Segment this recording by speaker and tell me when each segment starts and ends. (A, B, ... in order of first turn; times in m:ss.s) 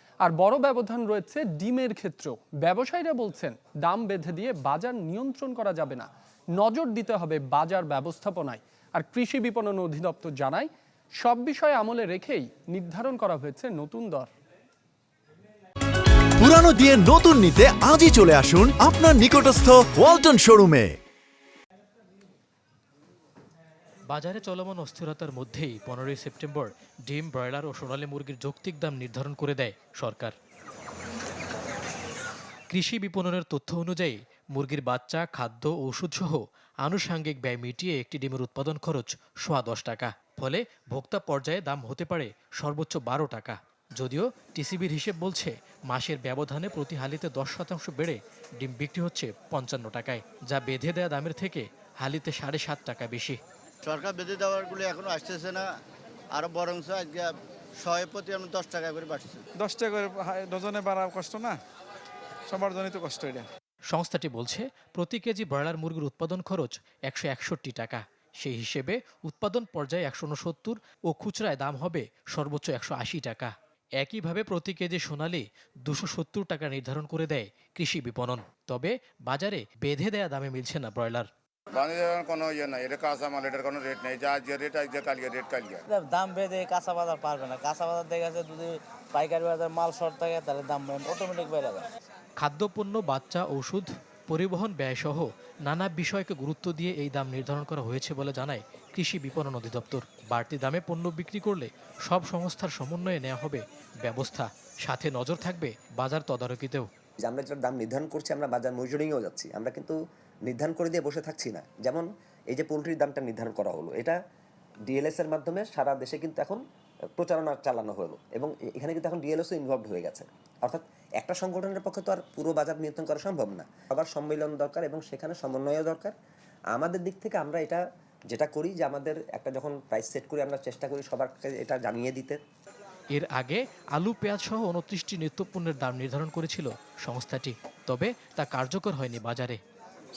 0:00.2-0:14.3 A
0:16.4-0:21.0 B
0:24.1-0:30.4 C
0:32.7-0:53.4 C
0:53.8-0:55.7 D
0:56.3-0:59.4 D
0:59.6-1:01.6 E
1:02.5-1:03.5 E
1:03.9-1:21.3 C
1:21.7-1:25.8 F
1:25.9-1:31.9 G
1:32.4-1:46.9 C
1:47.2-1:54.2 H
1:54.9-1:56.6 H
1:57.2-2:06.1 H
2:06.7-2:12.4 H
2:13.1-2:19.6 C